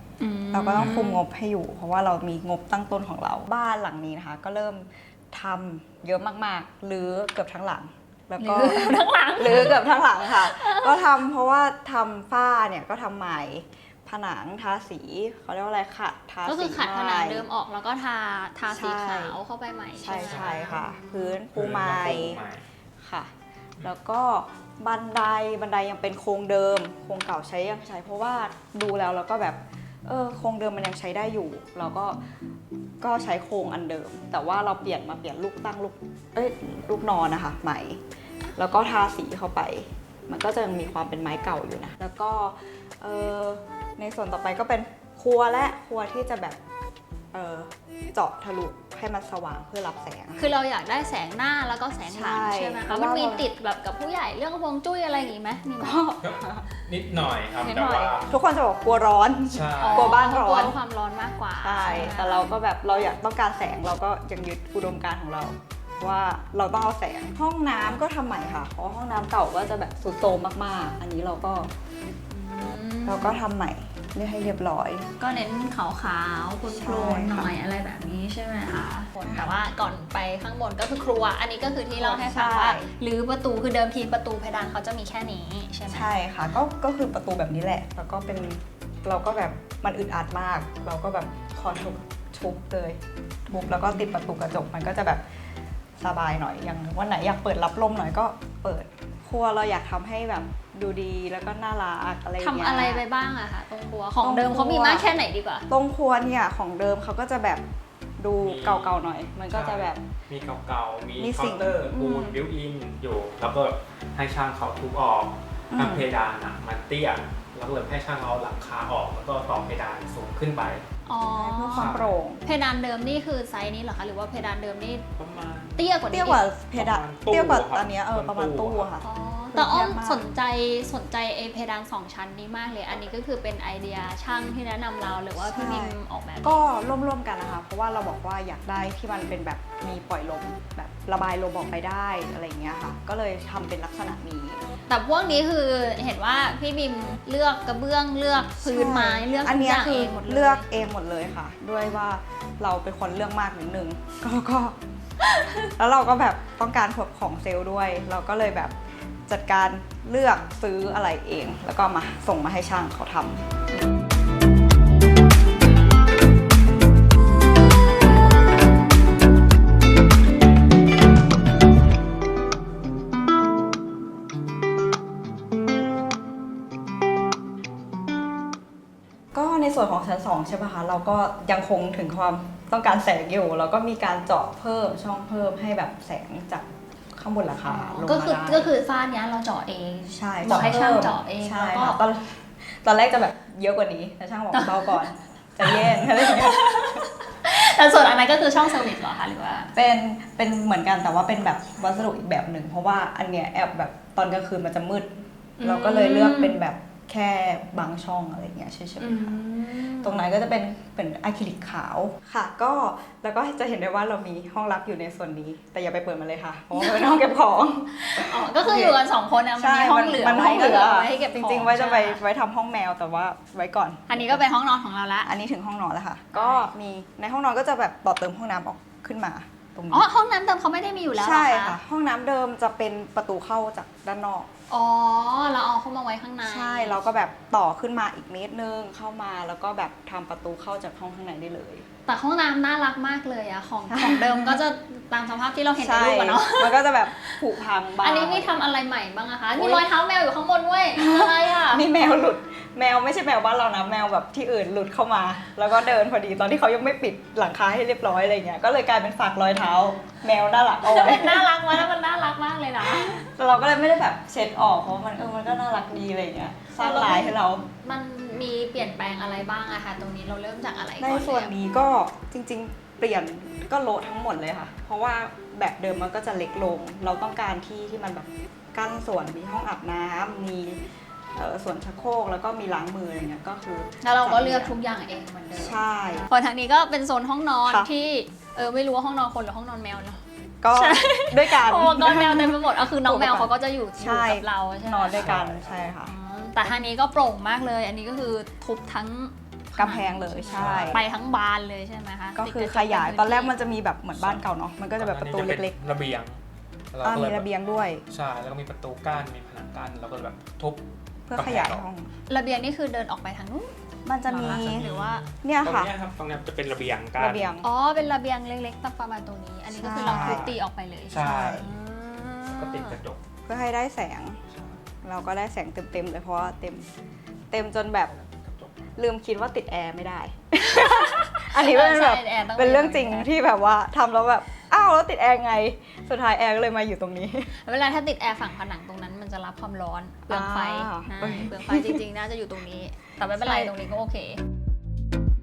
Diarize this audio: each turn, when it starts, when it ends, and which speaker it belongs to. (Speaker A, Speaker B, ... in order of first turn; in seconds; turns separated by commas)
Speaker A: 0.2-1.2, Speaker B: 0.5-17.4, Speaker A: 8.4-11.0, Speaker C: 9.5-9.8, Speaker A: 16.4-20.8, Speaker B: 18.7-19.4, Speaker B: 20.0-22.4, Speaker C: 20.1-20.6, Speaker C: 21.5-22.6, Speaker B: 23.0-32.2, Speaker B: 33.0-38.0, Speaker B: 38.5-46.6, Speaker B: 47.3-50.5, Speaker A: 50.4-56.1, Speaker B: 52.0-53.4, Speaker B: 55.8-56.6, Speaker C: 56.2-58.3, Speaker A: 57.6-58.1, Speaker B: 58.2-60.7, Speaker C: 59.5-60.1, Speaker A: 59.8-62.5, Speaker B: 61.6-71.7, Speaker A: 72.3-73.3, Speaker B: 73.0-75.1, Speaker A: 75.2-86.1, Speaker B: 76.7-77.5, Speaker B: 79.2-79.5, Speaker B: 81.9-82.9, Speaker B: 85.9-95.2, Speaker A: 93.6-94.1, Speaker B: 96.0-103.0, Speaker A: 102.4-105.7, Speaker B: 104.2-105.1, Speaker B: 105.7-107.6, Speaker B: 108.2-110.0, Speaker C: 108.4-120.8, Speaker B: 111.2-112.3, Speaker A: 111.9-112.3, Speaker B: 115.7-116.1, Speaker A: 121.0-125.0, Speaker B: 121.3-122.4, Speaker C: 121.7-122.1, Speaker C: 125.2-125.9, Speaker A: 125.8-126.4, Speaker B: 126.1-130.2, Speaker C: 126.7-128.9, Speaker A: 129.0-136.6, Speaker B: 135.4-144.6, Speaker A: 144.9-150.7, Speaker B: 148.6-154.8, Speaker A: 155.2-155.6, Speaker B: 155.8-158.8, Speaker B: 159.3-163.4, Speaker B: 179.3-188.7, Speaker A: 187.6-192.0, Speaker B: 190.1-197.1, Speaker C: 190.5-190.8, Speaker A: 194.5-195.0, Speaker A: 195.6-199.7, Speaker B: 199.7-219.0, Speaker A: 205.6-206.6, Speaker A: 209.0-210.4, Speaker A: 216.8-217.2, Speaker A: 217.9-222.2, Speaker B: 219.6-224.4, Speaker A: 224.1-225.3, Speaker B: 225.2-230.1, Speaker A: 226.3-226.7, Speaker A: 229.9-231.8, Speaker B: 231.1-234.5, Speaker A: 234.7-237.0, Speaker B: 236.4-241.8, Speaker A: 242.1-247.4, Speaker B: 243.9-244.6, Speaker B: 245.8-248.6, Speaker A: 248.0-251.8, Speaker B: 249.5-249.8, Speaker B: 250.9-261.9, Speaker A: 260.8-263.3, Speaker B: 262.9-267.6, Speaker A: 266.7-271.5, Speaker B: 271.0-280.8, Speaker B: 281.3-284.7, Speaker A: 284.0-295.4, Speaker B: 285.5-286.3, Speaker B: 287.6-287.9, Speaker B: 290.6-296.1, Speaker C: 295.1-295.8, Speaker A: 296.0-303.5, Speaker B: 299.8-301.0, Speaker C: 300.6-301.0, Speaker B: 302.3-305.8, Speaker C: 304.1-304.4, Speaker C: 305.0-306.4, Speaker C: 306.9-307.5, Speaker B: 307.0-308.0, Speaker C: 308.1-311.9, Speaker B: 311.3-312.1, Speaker A: 312.3-313.7, Speaker B: 314.0-314.9, Speaker A: 314.2-315.2, Speaker C: 314.3-317.5, Speaker B: 315.4-315.9, Speaker B: 317.2-317.7, Speaker A: 317.6-323.0, Speaker B: 319.7-320.5, Speaker C: 320.0-320.6, Speaker C: 321.1-321.7, Speaker B: 321.2-321.7, Speaker C: 322.5-323.2, Speaker B: 323.4-324.4, Speaker C: 324.5-324.8, Speaker B: 325.0-326.9, Speaker B: 327.5-328.1, Speaker C: 328.1-328.7, Speaker B: 328.9-337.5, Speaker A: 330.7-333.3, Speaker A: 337.6-344.4, Speaker B: 340.3-342.0, Speaker B: 343.3-343.7